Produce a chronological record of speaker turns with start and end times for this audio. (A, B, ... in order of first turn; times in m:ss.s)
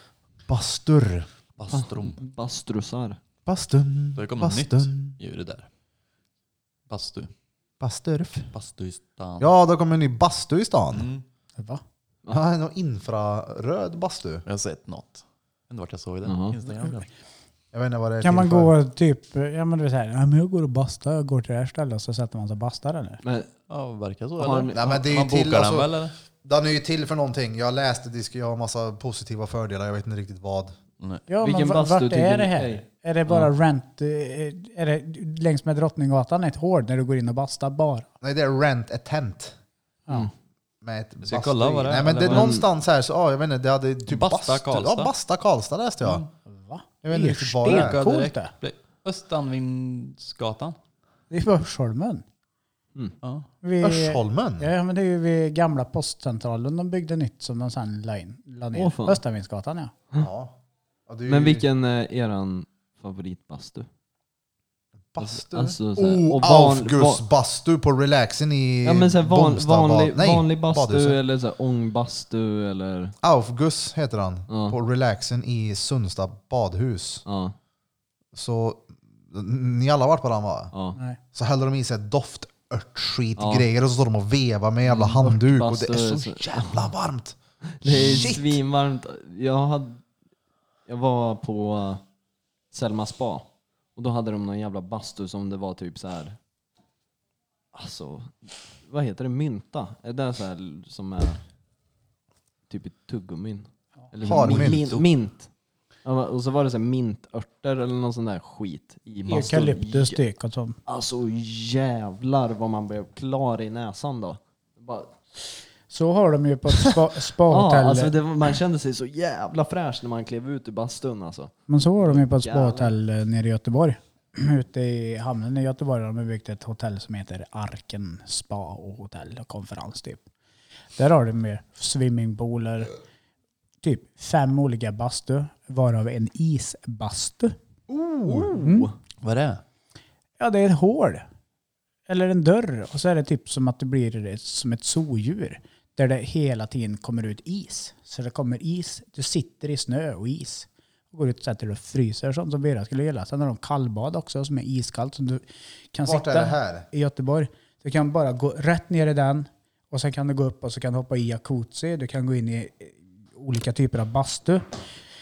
0:00.5-0:01.3 A
0:01.6-0:02.2 B
0:01.7-0:03.2 C
0:03.5-0:05.2 A
0:04.2-0:05.7 B
0:06.9-0:07.3 B
0:07.8-0:08.5 A
0:08.5-0:09.5 B
0:09.4-0:11.1 A
0:10.9-0:11.2 B
0:12.3-0:14.4 A
0:14.5-0:17.1 B
0:16.2-0:16.6 C
0:17.7-0:18.7 A
0:18.2-0:23.2 D
0:23.2-0:23.5 C
0:23.7-0:26.1 B
0:24.4-0:24.8 C
0:24.7-0:30.8 A
0:31.0-0:31.2 B
0:31.3-0:38.1 D
0:31.4-0:33.4 C
0:38.2-0:39.6 A
0:40.8-0:46.3 A
0:41.2-0:42.6 B
0:42.3-0:42.6 C
0:44.1-0:45.1 B
0:46.0-0:46.3 B
0:46.5-0:48.5 D
0:47.0-0:48.0 A
0:47.6-0:50.8 B
0:51.3-0:52.2 D
0:53.2-0:53.5 B
0:53.6-0:59.9 D
0:53.8-0:54.7 A
0:58.7-0:59.2 C
1:00.2-1:00.5 A
1:01.1-1:01.7 A
1:01.3-1:03.9 C
1:05.1-1:11.2 A
1:05.2-1:07.2 C
1:08.8-1:13.2 C
1:13.2-1:17.2 A
1:14.5-1:14.8 C
1:17.3-1:17.6 C
1:18.3-1:20.7 A
1:20.7-1:21.0 C
1:21.3-1:28.6 A
1:23.4-1:23.7 C
1:24.9-1:26.9 C
1:27.8-1:30.0 C
1:30.9-1:32.0 C
1:32.7-1:36.4 C
1:37.7-1:41.4 C
1:42.7-1:45.5 C
1:44.2-1:45.0 A
1:44.3-1:45.1 B
1:46.0-1:50.2 C
1:49.3-1:50.8 D
1:50.9-1:55.2 C
1:55.9-1:58.1 D
1:57.5-2:03.0 C
2:01.7-2:10.2 D
2:11.0-2:12.9 D
2:13.8-2:17.6 D
2:17.9-2:18.6 A
2:18.3-2:18.9 D
2:18.5-2:18.9 C
2:19.2-2:19.6 B
2:20.4-2:21.2 D
2:22.1-2:44.6 D
2:36.0-2:36.9 A